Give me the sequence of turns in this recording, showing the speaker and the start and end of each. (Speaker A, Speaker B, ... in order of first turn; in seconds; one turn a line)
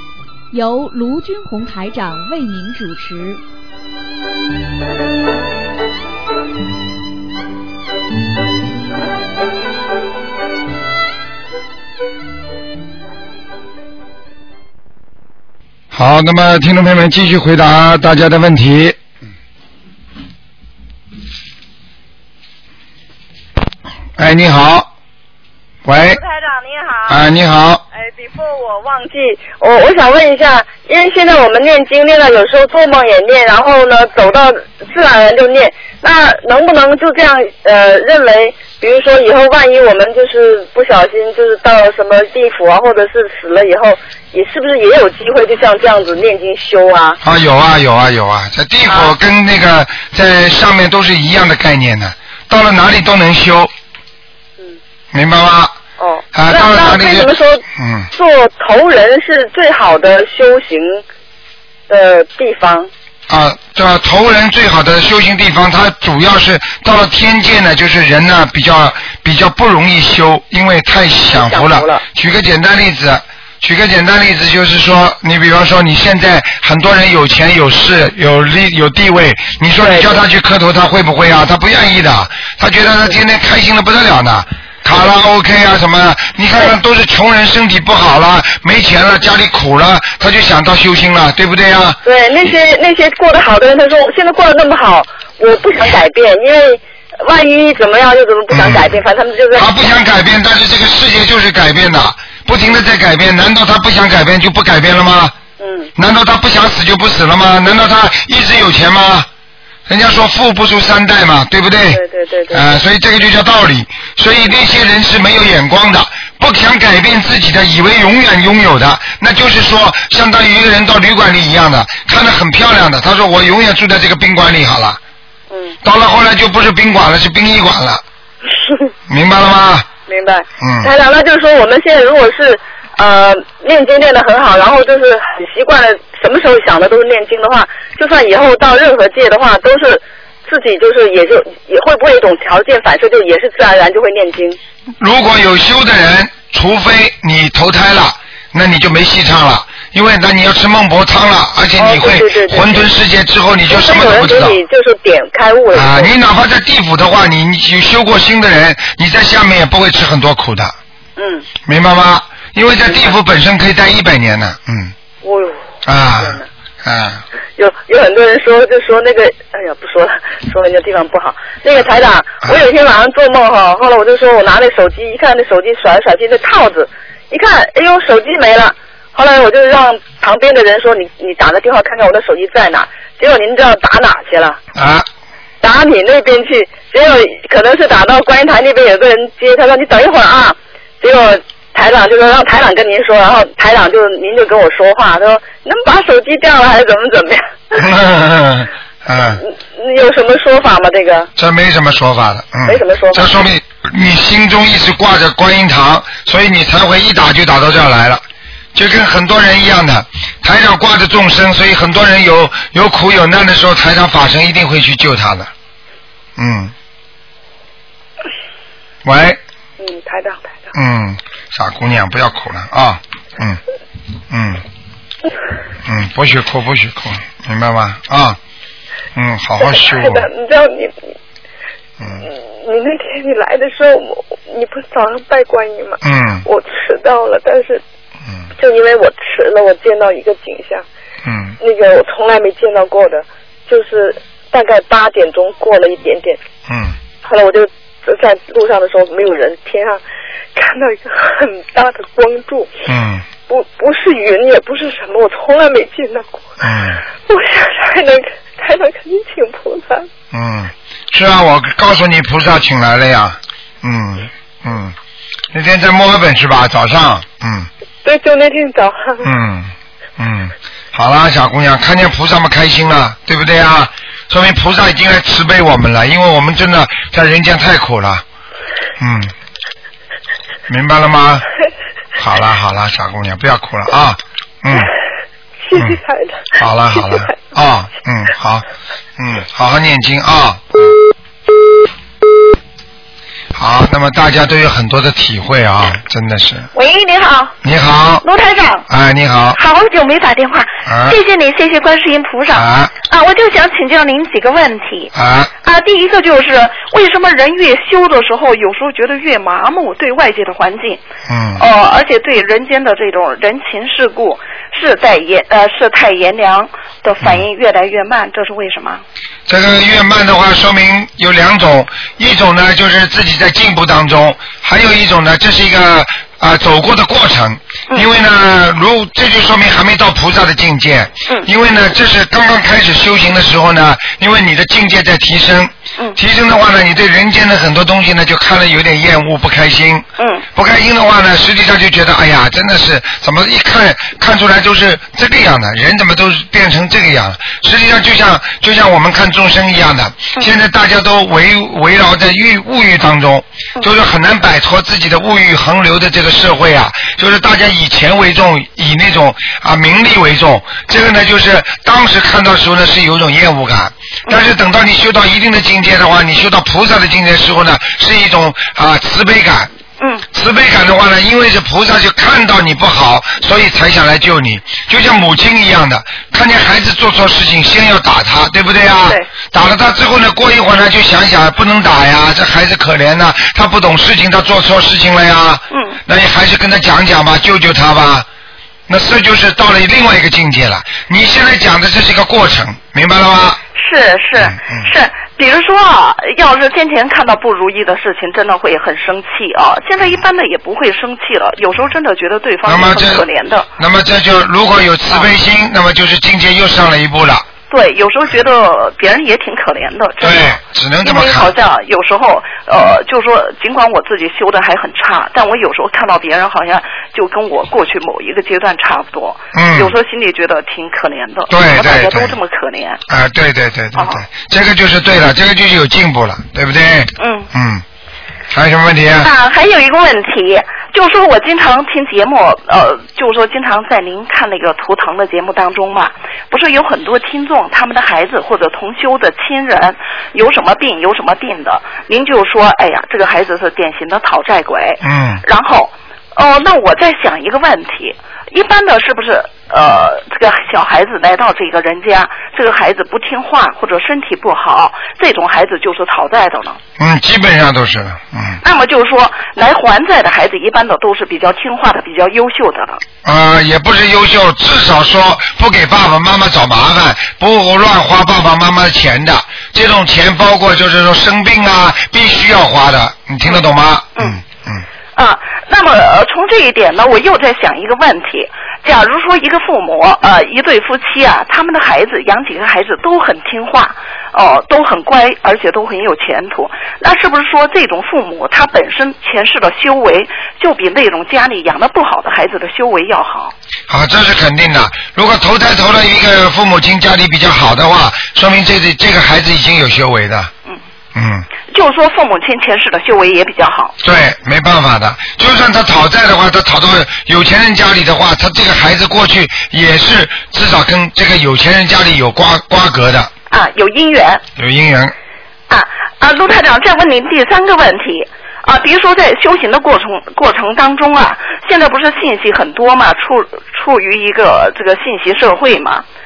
Speaker A: 0.5-3.4
Speaker B: 15.9-19.0
Speaker B: 24.2-24.9
Speaker B: 25.8-26.2
Speaker C: 26.0-27.2
Speaker B: 27.1-27.8
Speaker C: 27.9-47.2
Speaker B: 47.2-53.7
Speaker C: 48.9-49.1
Speaker B: 55.1-55.8
Speaker C: 56.0-61.0
Speaker B: 56.3-58.1
Speaker C: 61.9-62.9
Speaker B: 63.3-92.0
Speaker C: 71.3-72.0
Speaker C: 79.8-80.2
Speaker C: 92.0-99.7
Speaker B: 98.5-98.9
Speaker B: 99.5-105.3
Speaker C: 105.6-105.9
Speaker B: 106.0-109.3
Speaker B: 109.9-125.0
Speaker C: 111.9-112.6
Speaker B: 125.8-128.0
Speaker B: 129.1-129.9
Speaker C: 130.1-144.6
Speaker B: 130.6-130.9
Speaker B: 145.0-154.6
Speaker C: 151.8-152.9
Speaker C: 153.7-156.1
Speaker B: 155.7-160.7
Speaker C: 161.2-161.5
Speaker B: 161.6-164.9
Speaker C: 162.9-163.2
Speaker C: 165.2-165.6
Speaker B: 165.8-167.2
Speaker C: 166.2-166.4
Speaker C: 167.6-184.6
Speaker B: 184.7-185.1
Speaker C: 185.6-197.8
Speaker B: 197.7-199.4
Speaker C: 199.4-201.3
Speaker B: 201.3-208.2
Speaker C: 202.7-203.3
Speaker B: 208.7-215.5
Speaker B: 216.4-216.7
Speaker B: 219.0-219.4
Speaker C: 219.8-220.7
Speaker B: 220.7-223.6
Speaker B: 224.3-224.6
Speaker B: 225.8-228.4
Speaker B: 229.1-230.3
Speaker C: 229.6-231.0
Speaker B: 232.0-232.2
Speaker C: 232.2-237.8
Speaker B: 236.0-236.4
Speaker C: 238.6-240.8
Speaker B: 241.2-241.6
Speaker C: 241.6-246.4
Speaker B: 246.7-246.9
Speaker C: 247.2-250.0
Speaker C: 250.5-252.7
Speaker B: 252.9-253.2
Speaker C: 253.5-256.4
Speaker B: 256.6-257.0
Speaker C: 257.2-260.1
Speaker B: 260.3-264.9
Speaker B: 265.5-267.7
Speaker C: 268.0-269.2
Speaker B: 269.2-278.2
Speaker B: 279.0-279.3
Speaker B: 280.7-281.4
Speaker B: 282.2-284.9
Speaker C: 285.6-286.5
Speaker B: 285.7-286.0
Speaker B: 286.6-288.6
Speaker B: 289.2-290.9
Speaker B: 293.5-296.7
Speaker D: 296.7-297.6
Speaker B: 297.6-298.2
Speaker D: 298.2-298.9
Speaker B: 298.9-299.6
Speaker D: 299.6-305.1
Speaker B: 300.9-301.2
Speaker B: 302.5-302.9
Speaker B: 305.1-305.5
Speaker D: 305.6-311.0
Speaker B: 311.3-311.6
Speaker D: 311.6-319.0
Speaker B: 319.5-369.7
Speaker D: 340.2-340.4
Speaker B: 370.3-388.2
Speaker D: 385.7-386.0
Speaker B: 388.9-393.6
Speaker D: 393.7-403.7
Speaker B: 394.4-394.9
Speaker B: 402.6-403.2
Speaker B: 403.8-407.4
Speaker D: 407.7-423.0
Speaker B: 410.2-411.5
Speaker B: 419.5-419.9
Speaker B: 421.5-422.4
Speaker B: 423.1-427.8
Speaker D: 423.9-424.2
Speaker D: 427.2-427.5
Speaker B: 428.5-429.3
Speaker D: 429.2-456.8
Speaker B: 445.0-445.4
Speaker B: 457.0-458.6
Speaker D: 458.6-463.0
Speaker B: 463.2-474.8
Speaker D: 475.1-493.5
Speaker B: 493.9-500.5
Speaker B: 501.1-501.5
Speaker D: 501.7-503.9
Speaker B: 504.0-513.3
Speaker D: 513.5-514.4
Speaker B: 514.6-515.1
Speaker D: 515.7-526.0